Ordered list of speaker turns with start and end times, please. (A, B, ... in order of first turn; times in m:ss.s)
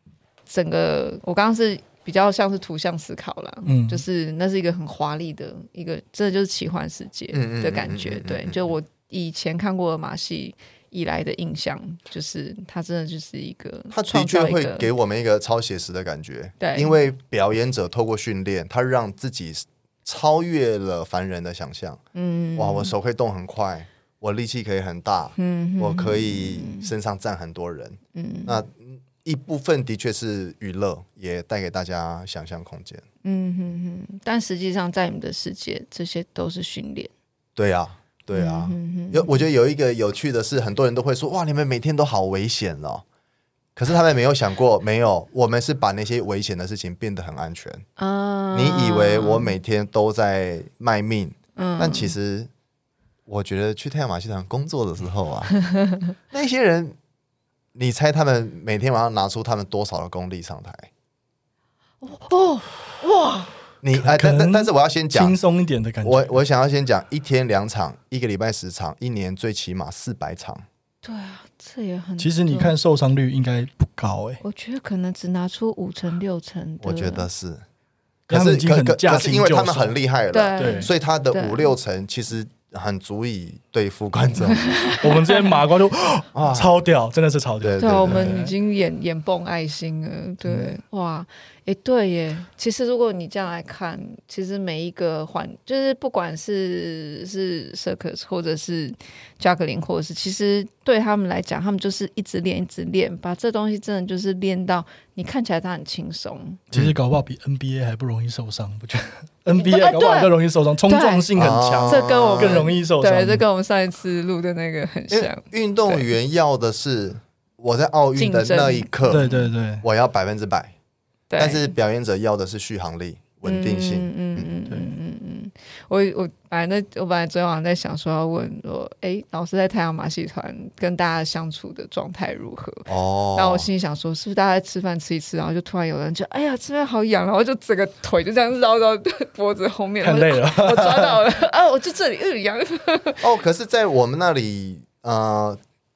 0:00.5-0:14.9 A
0:03.6-0:04.0 B
0:07.3-0:08.7 C
0:13.9-0:22.0 C
0:16.6-0:16.9 A
0:22.1-0:22.9 A
0:22.6-0:33.0 C
0:25.4-0:26.9 A
0:28.1-0:28.6 A
0:33.2-0:37.1 A
0:37.6-0:43.0 C
0:38.3-0:39.4 A
0:43.8-0:47.8 C
0:48.0-0:49.5 A
0:48.5-0:52.5 C
0:51.6-0:52.1 A
0:53.3-0:55.5 C
0:55.7-0:56.1 A
0:56.3-0:56.9 C
0:57.7-1:00.9 C
1:02.0-1:03.5 A
1:03.8-1:05.4 C
1:03.9-1:06.3 B
1:06.0-1:10.6 C
1:11.0-1:12.7 A
1:12.2-1:14.4 B
1:14.4-1:17.3 A
1:16.8-1:17.6 C
1:18.3-1:19.9 B
1:18.3-1:24.8 C
1:20.3-1:21.7 A
1:20.6-1:20.9 B
1:24.4-1:25.6 A
1:25.0-1:28.5 B
1:26.3-1:26.8 C
1:27.6-1:28.3 C
1:27.8-1:46.6 A
1:30.4-1:30.7 B
1:46.7-1:53.4 B
1:49.5-1:50.3 A
1:50.8-1:56.1 A
1:51.3-1:52.7 C
1:55.1-1:59.3 C
1:58.2-1:59.5 A
1:59.1-1:59.8 B
1:59.8-2:00.7 C
2:01.3-2:01.7 A
2:01.4-2:04.5 C
2:03.4-2:23.2 A
2:12.9-2:13.7 C
2:20.0-2:21.2 B
2:23.2-2:25.6 C